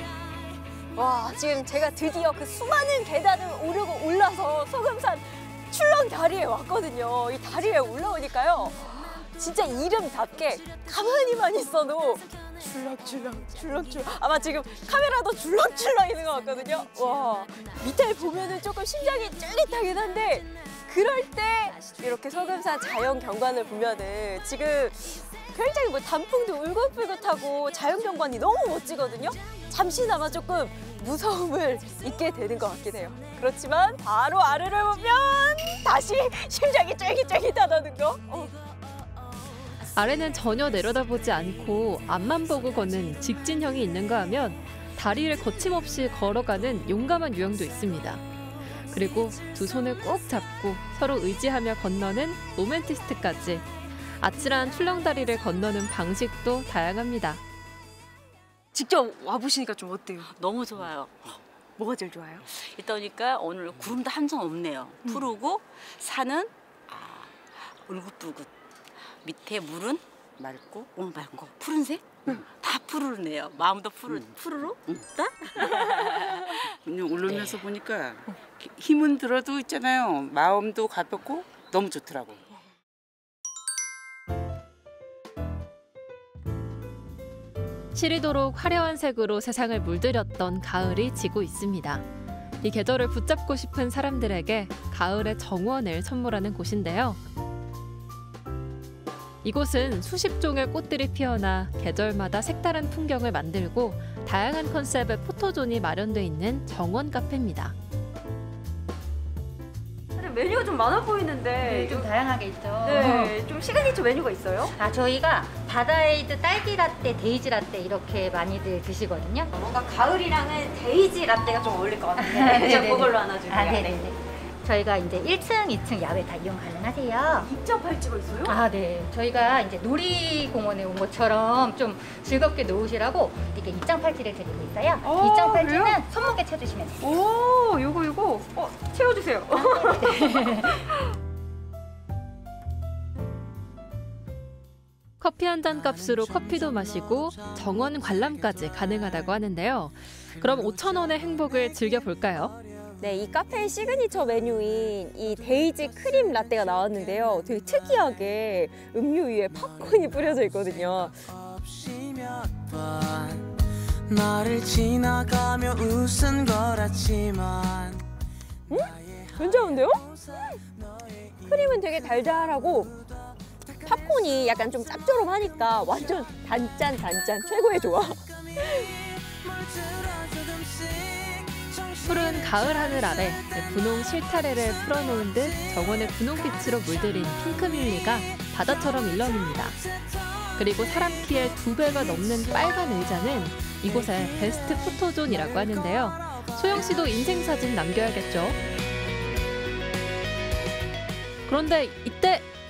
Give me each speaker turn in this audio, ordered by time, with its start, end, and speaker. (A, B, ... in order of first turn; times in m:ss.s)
0:01.0-0:38.6 A
0:40.0-0:48.2 B
0:48.9-0:57.4 B
0:58.7-1:00.3 A
1:00.2-1:08.5 C
1:01.8-1:02.4 A
1:09.2-1:10.0 C
1:10.4-1:11.5 D
1:10.9-1:16.6 C
1:14.1-1:14.3 D
1:16.8-1:22.4 D
1:17.2-1:17.6 C
1:27.9-1:32.0 B
1:32.6-1:37.2 B
1:39.4-1:47.8 B
1:50.2-1:52.1 A
1:51.6-1:53.4 E
1:52.8-1:54.7 A
1:54.8-1:59.5 E
1:59.5-2:04.2 A
2:02.2-2:04.0 E
2:04.6-2:07.5 E
2:07.3-2:08.6 A
2:08.4-2:17.2 E
2:15.0-2:16.0 A
2:17.0-2:20.5 A
2:19.5-2:20.7 E
2:25.2-2:32.6 B
2:33.0-2:41.2 A
2:41.9-2:43.4 F
2:44.1-2:48.0 F
2:48.7-2:50.0 A
2:51.4-2:53.0 A
2:53.7-2:58.9 A
2:59.4-3:01.7 F
3:02.0-3:09.8 B
3:10.6-3:18.6 B
3:21.5-3:22.5 B